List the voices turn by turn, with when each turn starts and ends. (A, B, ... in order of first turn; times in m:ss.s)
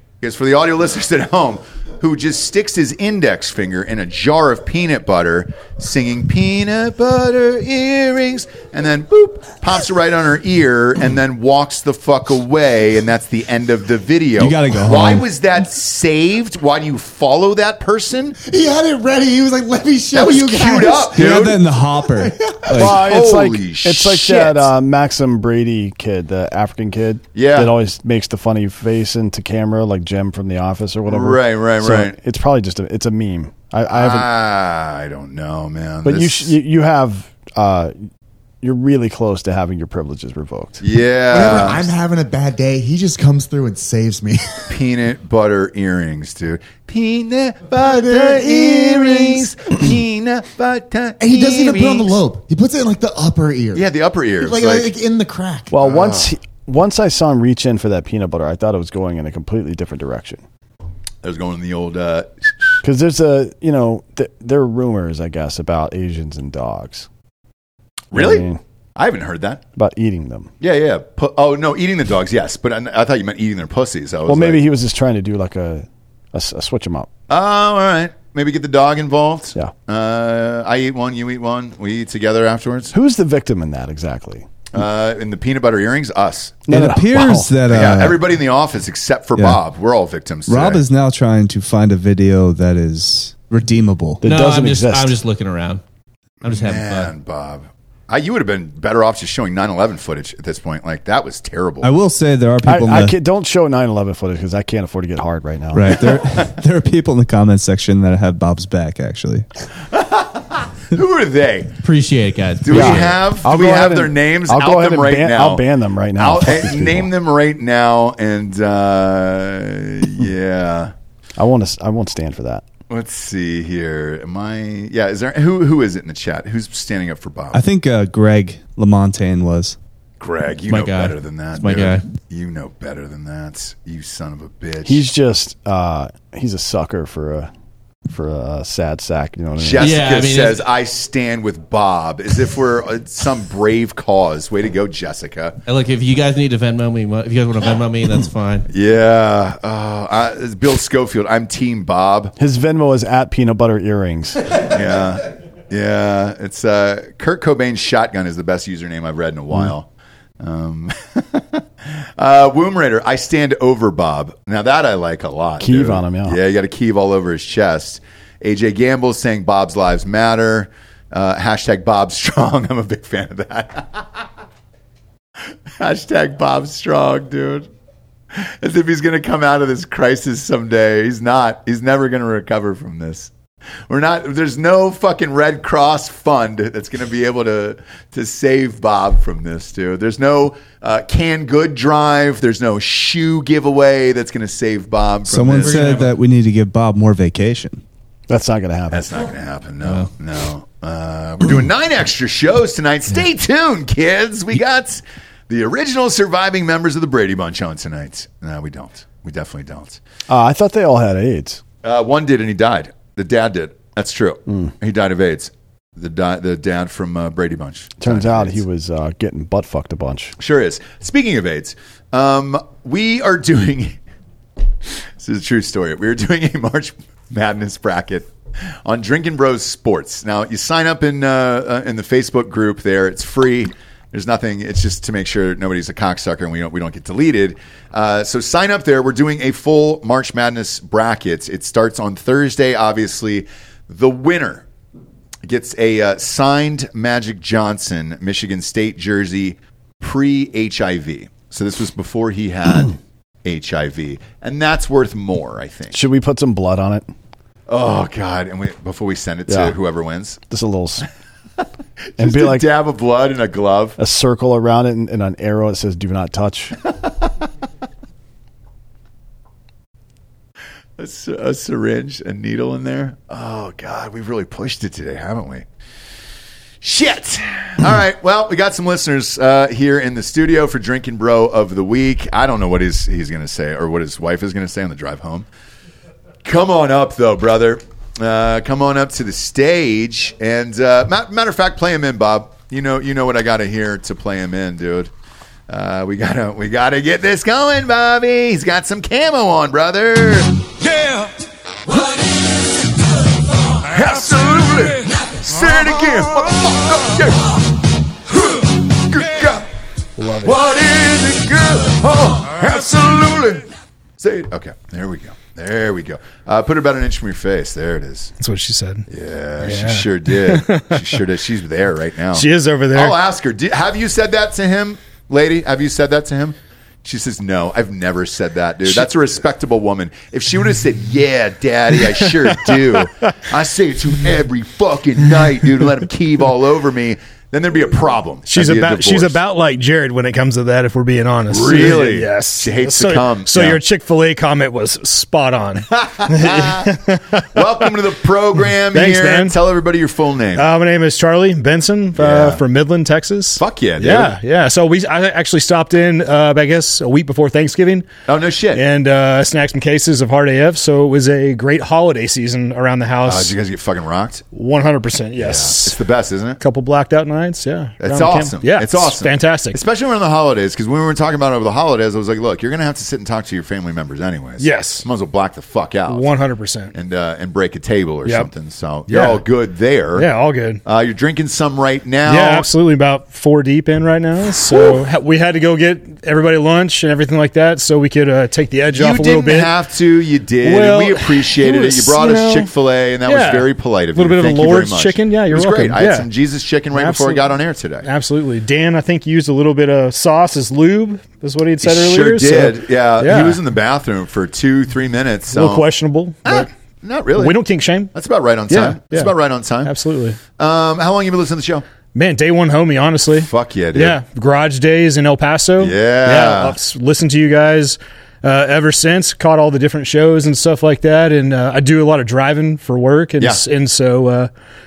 0:00.2-0:18.4 A
0:14.4-0:15.2 B
0:18.4-0:22.8 C
0:20.1-0:21.6 A
0:21.1-0:23.2 B
0:22.7-0:24.7 A
0:22.7-0:34.3 D
0:27.3-0:27.8 A
0:31.1-0:32.2 A
0:33.9-0:36.5 A
0:36.0-0:38.0 D
0:38.6-0:40.8 D
0:40.8-0:41.8 A
0:41.3-0:44.8 C
0:44.7-0:52.2 A
0:47.8-0:49.8 C
0:51.2-0:55.7 C
0:53.7-0:54.9 A
0:55.7-1:00.4 D
0:55.7-0:56.3 A
1:01.2-1:02.5 A
1:02.8-1:07.1 D
1:08.1-1:09.6 A
1:08.1-1:08.6 D
1:09.8-1:10.5 D
1:10.6-1:14.6 A
1:14.3-1:17.1 D
1:17.3-1:22.9 A
1:22.9-1:24.4 D
1:24.7-1:26.7 A
1:26.7-1:27.5 D
1:26.7-1:28.3 B
1:27.6-1:30.8 A
1:29.3-1:29.6 B
1:30.5-1:34.2 B
1:34.2-1:35.1 D
1:34.2-1:35.8 E
1:36.4-1:37.1 E
1:36.5-1:41.9 A
1:41.8-1:43.1 B
1:42.6-1:46.0 D
1:45.7-1:49.4 B
1:49.9-1:51.7 A
1:51.8-1:53.2 E
1:52.6-1:55.6 A
1:52.7-1:57.1 D
1:56.2-2:00.9 A
2:01.4-2:02.6 D
2:02.9-2:07.6 A
2:07.5-2:09.8 B
2:10.2-2:15.0 A
2:10.7-2:12.0 E
2:14.8-2:17.5 D
2:18.1-2:19.9 D
2:19.6-2:25.6 A
2:19.8-2:20.6 E
2:25.6-2:28.7 E
2:28.7-2:32.3 A
2:32.4-2:34.4 D
2:34.6-2:39.9 A
2:40.4-2:54.2 A
2:45.6-2:46.4 D
2:55.8-2:57.7 A
2:58.3-3:03.3 A
3:03.9-3:16.0 A
3:15.2-3:17.8 B
3:15.6-3:16.1 E
3:18.3-3:19.0 D
3:18.9-3:30.0 A
3:19.8-3:20.1 E
3:30.3-3:31.6 D
3:31.8-3:38.6 A
3:38.0-3:40.4 D
3:40.4-3:44.0 A
3:45.2-3:48.3 A
3:48.8-4:04.6 A
4:05.4-4:16.0 A
4:15.9-4:17.1 D
4:17.7-4:20.4 A
4:19.5-4:19.7 D
4:20.5-4:21.0 D
4:22.2-4:22.7 D
4:22.2-4:24.0 A
4:24.0-4:26.7 D
4:31.0-4:35.6 A
4:36.8-4:45.5 A
4:46.4-4:55.1 A
4:55.7-5:00.6 A
5:03.8-5:07.4 A
5:08.5-5:09.7 A
5:10.2-5:10.6 F
5:10.4-5:18.3 A
5:18.4-5:19.0 F
5:19.1-5:39.4 A
5:19.6-5:21.2 F
5:22.3-5:23.2 F
5:32.1-5:33.3 F
5:38.5-5:47.8 F
5:41.5-5:43.8 A
5:45.9-5:46.9 A
5:47.5-5:50.7 A
5:48.9-5:49.6 F
5:50.5-5:58.1 F
5:52.2-5:52.6 A
5:53.6-5:54.3 A
5:58.3-5:58.8 A
5:58.7-6:03.5 F
6:03.2-6:04.4 A
6:04.5-6:06.0 F
6:05.4-6:06.6 A
6:06.6-6:09.8 F
6:08.0-6:16.3 A
6:14.6-6:15.0 F
6:16.1-6:16.9 F
6:16.9-6:20.3 A
6:18.2-6:18.5 F
6:19.1-6:19.4 F
6:20.2-6:20.8 F
6:20.8-6:22.7 A
6:22.2-6:29.7 F
6:24.7-6:25.0 A
6:28.9-6:38.0 A
6:30.6-6:32.7 F
6:33.2-6:36.3 F
6:36.9-6:37.5 F
6:38.0-6:43.6 F
6:41.8-6:45.9 A
6:45.5-6:46.7 F
6:46.4-6:47.6 A
6:47.4-6:48.1 F
6:48.1-6:49.9 A
6:48.7-6:49.3 F
6:49.8-6:50.4 F
6:50.6-6:51.8 A
6:52.1-7:04.5 F
6:53.3-6:54.2 A
6:55.8-6:56.8 A